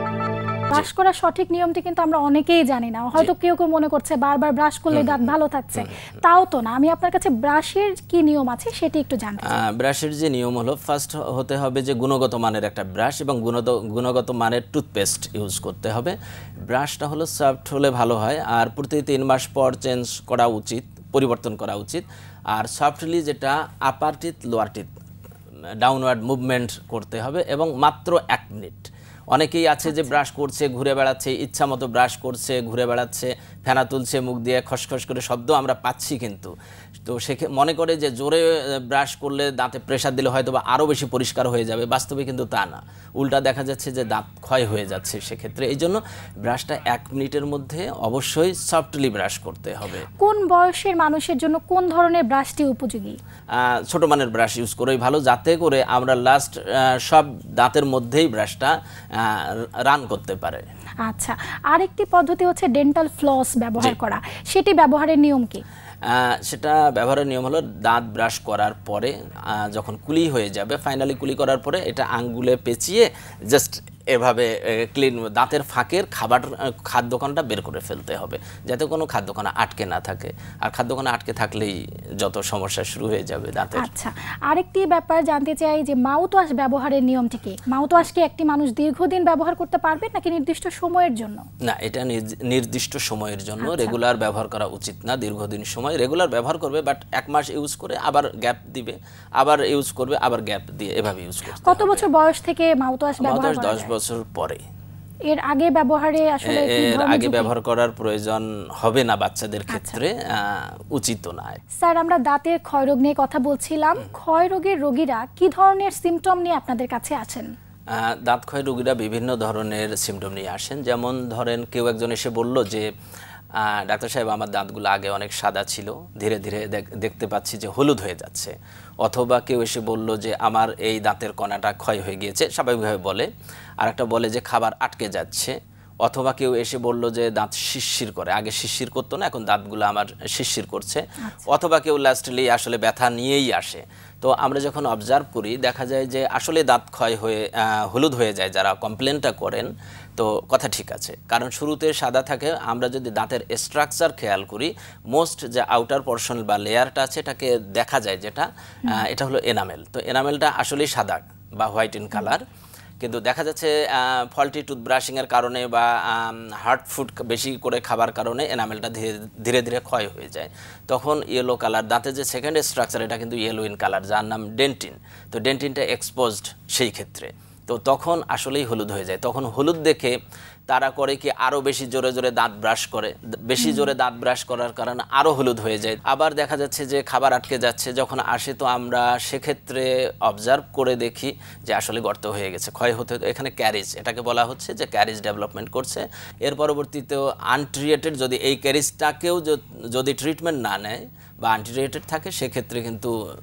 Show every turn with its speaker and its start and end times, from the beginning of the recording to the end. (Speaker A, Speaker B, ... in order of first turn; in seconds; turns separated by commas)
Speaker A: 0.7-9.6, Speaker B: 4.9-6.2, Speaker B: 9.4-16.1, Speaker B: 16.7-24.9, Speaker B: 25.8-36.5, Speaker A: 29.9-30.2, Speaker B: 37.0-50.1, Speaker A: 50.2-53.2, Speaker B: 53.5-60.6, Speaker A: 61.1-65.6, Speaker B: 66.0-83.9, Speaker A: 83.7-91.4, Speaker B: 91.6-102.1, Speaker A: 93.6-94.0, Speaker A: 101.6-103.9, Speaker B: 103.2-104.6, Speaker A: 105.3-107.5, Speaker B: 106.4-111.6, Speaker A: 109.7-110.0, Speaker A: 111.7-117.5, Speaker B: 117.9-122.9, Speaker B: 123.6-133.3, Speaker B: 133.8-162.4, Speaker A: 141.2-141.5, Speaker B: 163.0-180.2, Speaker B: 180.7-203.1, Speaker A: 183.6-183.9